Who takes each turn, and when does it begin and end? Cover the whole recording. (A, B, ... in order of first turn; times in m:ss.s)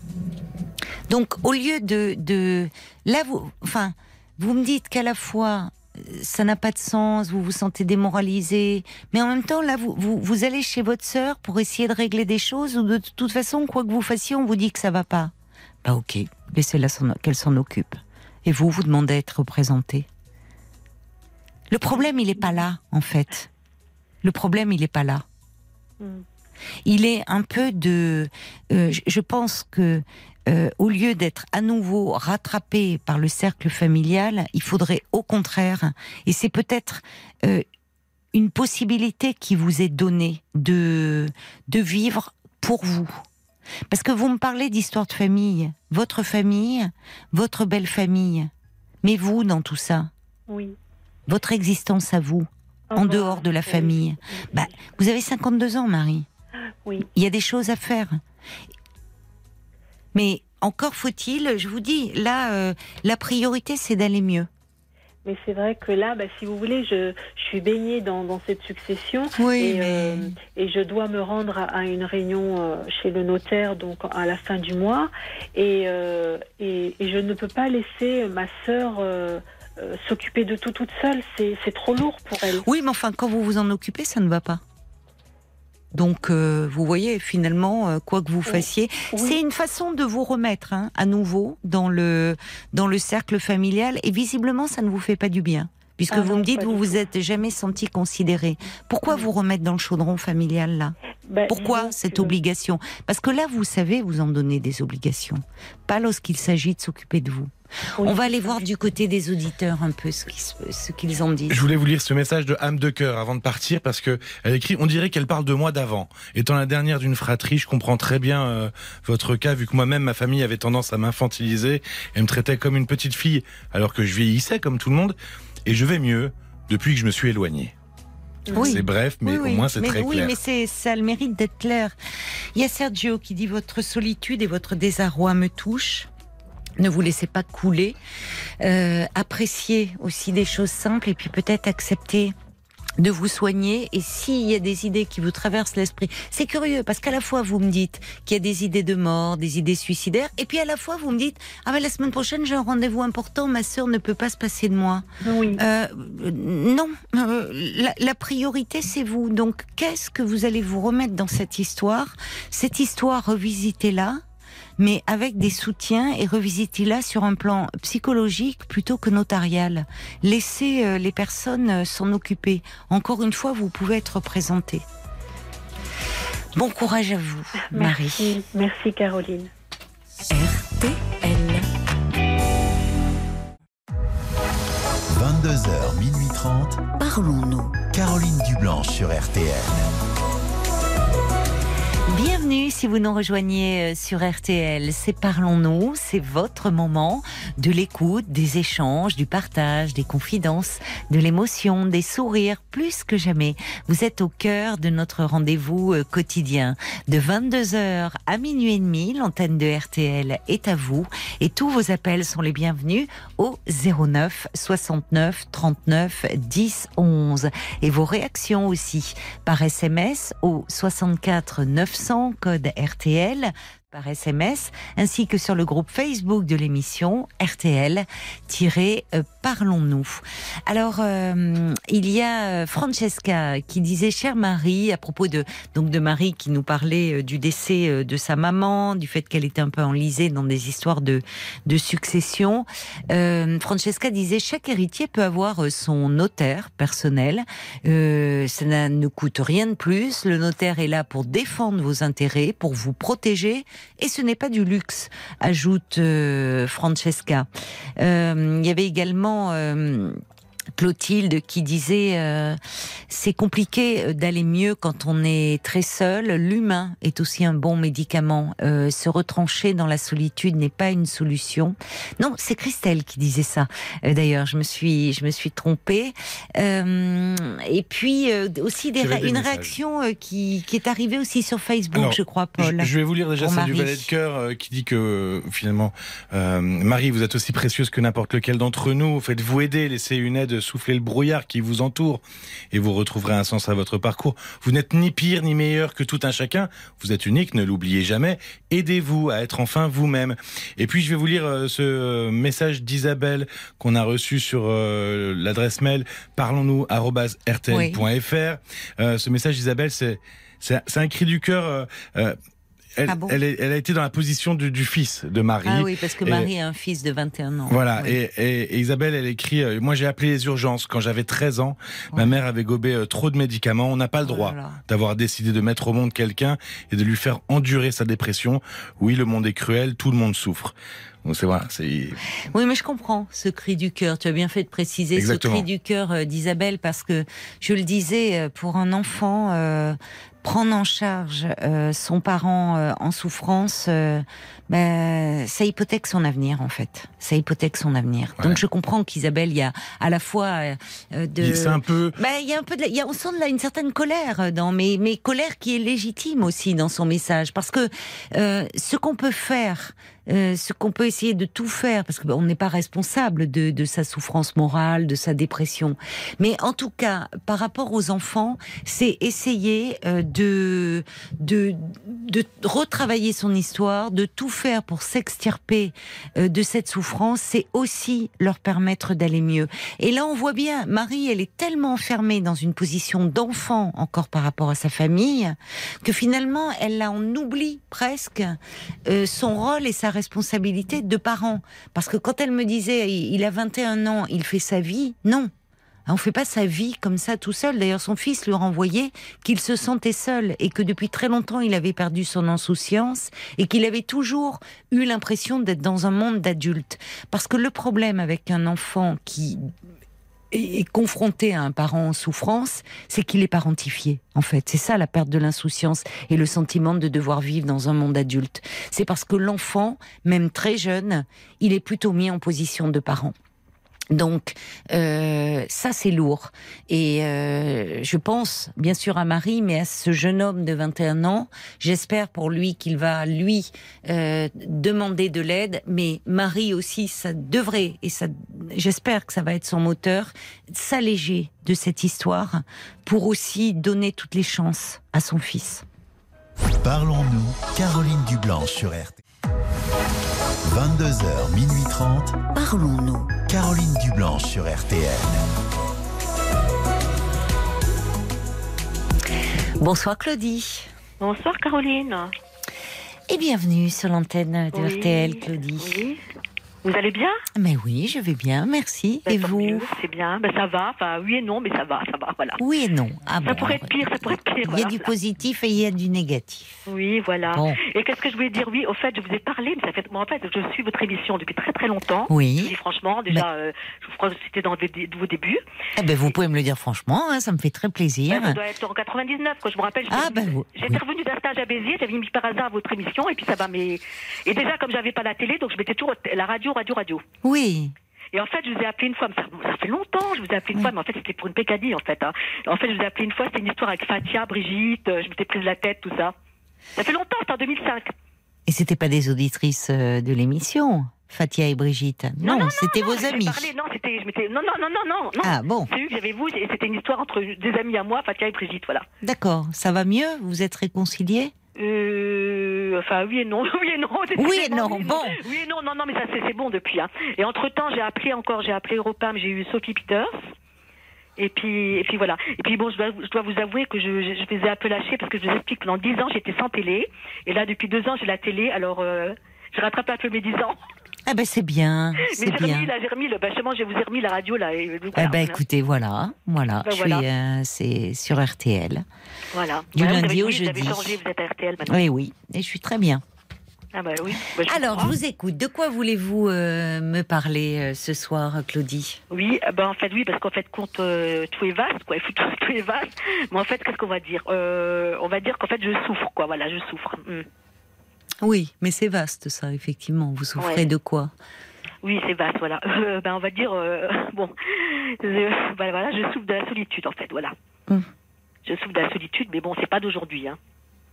0:01.1-0:15.3 A
0:15.8-0:20.1 A
0:21.7-0:23.5 A
0:24.2-0:25.2 A
0:26.0-0:26.2 B
0:26.8-0:37.6 A
0:38.3-0:43.2 A
0:43.9-0:48.5 A
0:49.0-0:50.1 A
0:50.5-0:50.8 B
0:51.3-0:56.3 A
0:52.9-0:54.7 B
0:57.0-0:58.2 A
1:00.1-1:04.5 A
1:05.2-1:22.7 B
1:09.4-1:10.3 A
1:22.5-1:24.6 A
1:25.9-1:41.0 A
1:28.4-1:29.4 B
1:36.1-1:37.0 B
1:41.3-1:42.3 B
1:41.5-1:51.6 A
1:48.0-1:48.6 B
1:51.5-2:05.1 C
2:05.6-2:07.7 C
2:08.5-2:08.8 B
2:08.5-2:10.3 C
2:08.5-2:11.9 A
2:12.5-2:16.1 A
2:16.8-2:18.0 A
2:18.6-2:22.3 A
2:23.0-2:44.2 A
2:35.2-2:35.6 B
2:44.8-2:54.8 A
2:56.5-2:58.4 A
2:57.6-2:59.5 B
3:00.3-3:01.6 A
3:05.1-3:06.8 D
3:07.0-3:07.8 A
3:07.9-3:09.9 D
3:12.1-4:20.2 A
4:20.7-4:44.1 A
4:39.0-4:39.7 C
4:41.9-5:12.4 C
5:07.7-5:08.0 A
5:13.0-5:16.5 C
5:13.1-5:13.4 A
5:15.6-5:18.2 A
5:17.7-5:30.7 C
5:24.2-5:24.8 A
5:31.2-5:32.2 C
5:32.5-6:35.5 A
5:35.2-5:35.6 C
5:51.4-5:52.2 C
6:36.0-6:49.7 A
6:50.5-7:03.3 A
7:04.1-7:25.8 A
7:26.8-7:29.2 D
7:30.6-7:32.4 D
7:32.5-7:33.4 A
7:33.4-7:35.4 D
7:39.8-7:40.9 A
7:41.2-7:42.3 E
7:43.3-7:46.0 A
7:44.7-7:46.2 E
7:46.8-7:47.4 E
7:47.5-7:49.9 A
7:49.2-7:52.6 E
7:52.6-7:56.8 A
7:53.4-7:55.1 E
7:56.9-8:05.6 E
7:57.5-7:57.8 A
8:02.3-8:02.8 A
8:06.0-8:08.6 A
8:08.3-8:17.2 E
8:10.1-8:11.0 A
8:17.4-8:17.9 A
8:18.3-8:26.3 E
8:27.0-8:28.1 E
8:28.7-8:33.7 A
8:32.4-8:39.0 E
8:35.4-8:35.9 A
8:39.2-8:41.5 A
8:41.8-8:50.4 E
8:44.4-8:45.4 A
8:51.4-9:00.8 E
9:01.2-9:02.9 A
9:02.2-9:05.6 E
9:05.1-9:09.0 A
9:06.8-9:07.2 E
9:09.5-9:12.0 E
9:09.9-9:11.2 A
9:11.8-9:13.2 A
9:13.9-9:15.1 E
9:14.6-9:19.2 A
9:19.3-9:27.5 E
9:28.4-9:31.3 A
9:30.6-9:30.8 E
9:32.0-9:37.5 E
9:38.6-9:40.6 E